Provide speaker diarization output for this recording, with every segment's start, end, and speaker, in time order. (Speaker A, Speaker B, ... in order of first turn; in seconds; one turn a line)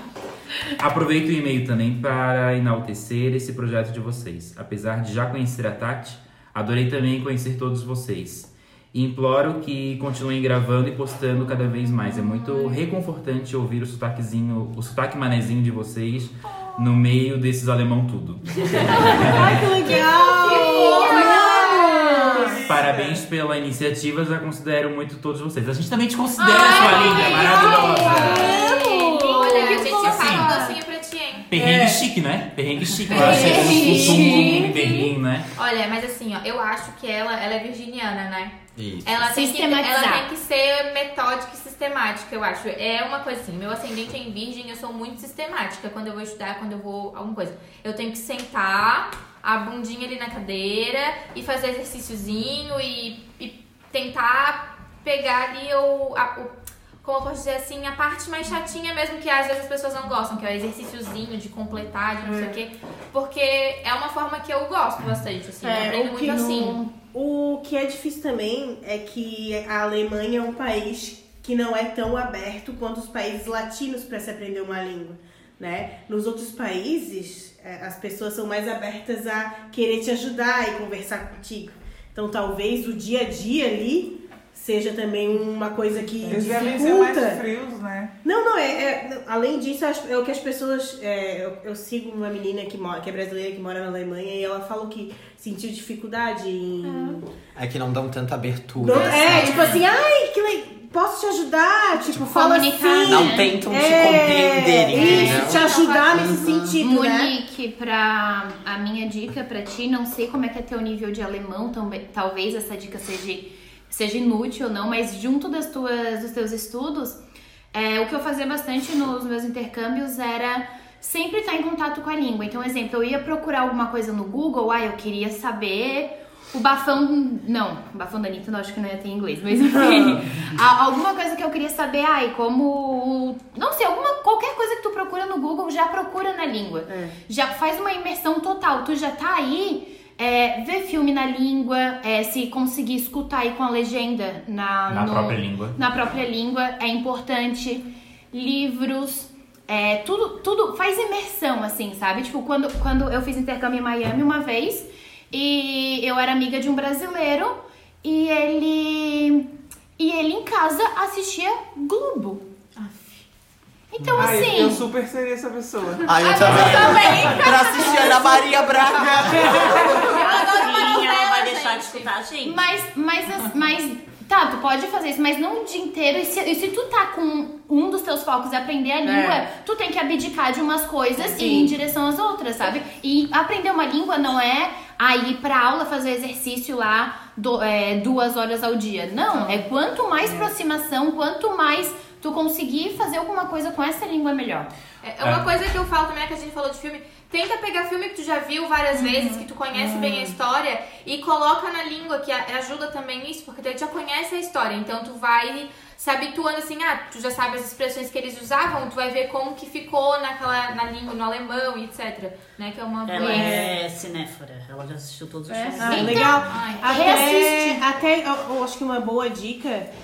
Speaker A: 0.7-19.8
Speaker B: 19.0-22.6
Speaker C: 19.9-22.5
Speaker D: 20.4-22.6
Speaker E: 22.3-23.2
Speaker A: 22.7-28.7
Speaker C: 26.4-30.7
Speaker D: 26.6-31.5
Speaker B: 27.0-30.5
Speaker A: 29.9-30.5
Speaker A: 31.5-35.5
Speaker B: 31.5-32.0
Speaker D: 33.1-66.8
Speaker C: 33.1-35.0
Speaker F: 38.8-39.1
Speaker C: 39.2-40.2
Speaker B: 62.2-62.5
Speaker B: 65.6-87.4
Speaker C: 66.1-66.9
Speaker E: 86.2-88.1
Speaker B: 88.2-97.2
Speaker C: 96.8-97.2
Speaker F: 97.5-99.8
Speaker B: 98.8-107.3
Speaker C: 99.0-99.8
Speaker C: 102.1-103.5
Speaker F: 103.0-106.8
Speaker D: 104.9-106.5
Speaker C: 106.8-117.2
Speaker C: 117.7-162.4
Speaker B: 136.9-137.2
Speaker A: 144.9-145.8
Speaker D: 162.8-163.2
Speaker C: 163.9-164.8
Speaker E: 164.2-166.2
Speaker F: 166.0-169.9
Speaker D: 166.1-168.5
Speaker A: 166.4-167.6
Speaker C: 166.7-167.9
Speaker B: 169.3-170.2
Speaker D: 169.4-172.1
Speaker C: 169.8-170.1
Speaker G: 170.0-172.6
Speaker C: 172.4-194.7
Speaker B: 179.0-179.4
Speaker B: 181.2-181.7
Speaker D: 195.0-213.6
Speaker A: 195.2-195.5
Speaker C: 198.9-199.4
Speaker B: 199.8-200.2
Speaker G: 213.1-216.3
Speaker C: 213.2-213.5
Speaker B: 213.2-213.8
Speaker C: 215.5-217.8
Speaker B: 215.8-219.9
Speaker D: 215.9-217.1